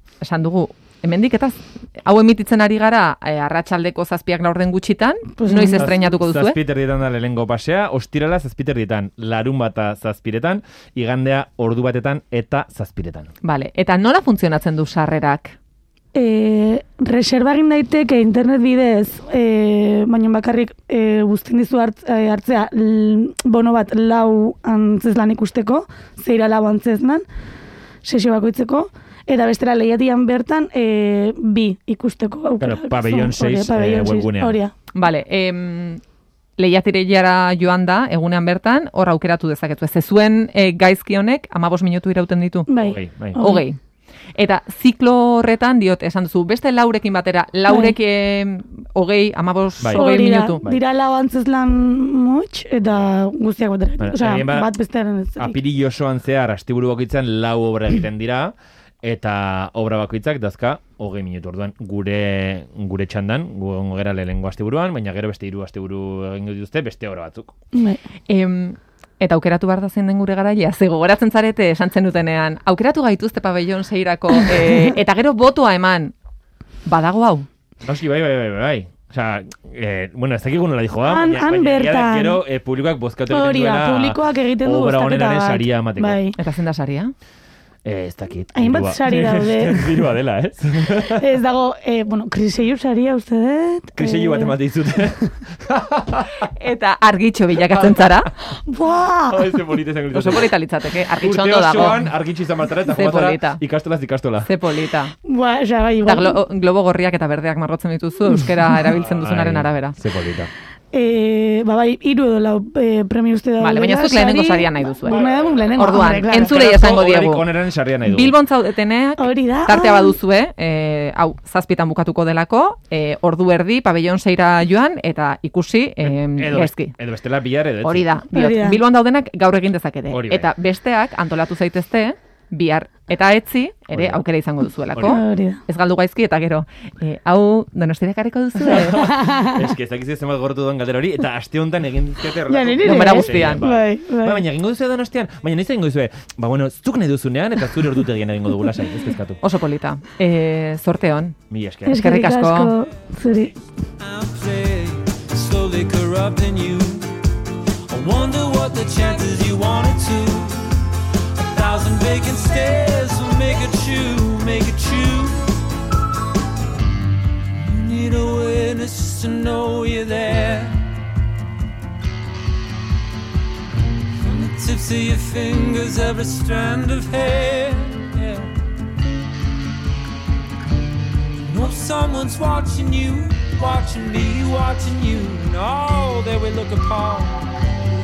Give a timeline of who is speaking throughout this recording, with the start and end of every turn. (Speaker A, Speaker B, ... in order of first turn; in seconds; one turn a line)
Speaker A: 0.2-6.6
Speaker B: 5.4-6.0
Speaker C: 5.8-13.3
Speaker A: 13.4-15.6
Speaker B: 16.1-27.2
Speaker B: 28.0-34.7
Speaker C: 32.6-34.6
Speaker A: 34.9-36.0
Speaker A: 36.6-42.7
Speaker B: 42.7-43.6
Speaker C: 42.8-43.4
Speaker A: 43.4-43.8
Speaker A: 44.4-50.6
Speaker B: 47.7-47.9
Speaker C: 49.8-50.1
Speaker B: 49.9-55.6
Speaker C: 54.0-54.7
Speaker C: 55.4-67.5
Speaker B: 67.7-68.0
Speaker A: 68.3-76.1
Speaker A: 76.9-77.5
Speaker C: 77.8-86.2
Speaker B: 81.1-82.4
Speaker B: 83.3-86.4
Speaker A: 86.4-87.1
Speaker C: 87.8-91.3
Speaker B: 88.5-89.9
Speaker B: 91.0-94.6
Speaker C: 94.0-96.4
Speaker A: 96.4-98.3
Speaker C: 97.7-98.3
Speaker B: 98.7-99.6
Speaker C: 99.3-100.5
Speaker A: 100.1-102.1
Speaker C: 101.2-104.5
Speaker A: 102.9-103.6
Speaker A: 104.4-105.1
Speaker B: 105.3-106.4
Speaker A: 106.1-110.0
Speaker C: 108.9-110.5
Speaker B: 110.9-116.6
Speaker A: 113.6-117.5
Speaker C: 115.1-115.7
Speaker C: 116.4-118.3
Speaker A: 118.0-127.0
Speaker B: 119.2-120.2
Speaker C: 126.0-128.1
Speaker A: 127.8-139.2
Speaker B: 128.3-128.8
Speaker C: 130.1-130.5
Speaker C: 133.9-134.2
Speaker C: 134.9-135.2
Speaker B: 135.1-135.6
Speaker C: 138.6-149.4
Speaker B: 139.0-139.6
Speaker B: 142.5-144.4
Speaker A: 142.8-143.7
Speaker A: 149.4-151.4
Speaker C: 151.5-152.0
Speaker B: 151.9-153.6
Speaker A: 152.0-152.7
Speaker D: 154.0-157.2
Speaker D: 157.9-165.7
Speaker D: 167.5-170.8
Speaker D: 174.2-178.5
Speaker D: 181.4-187.5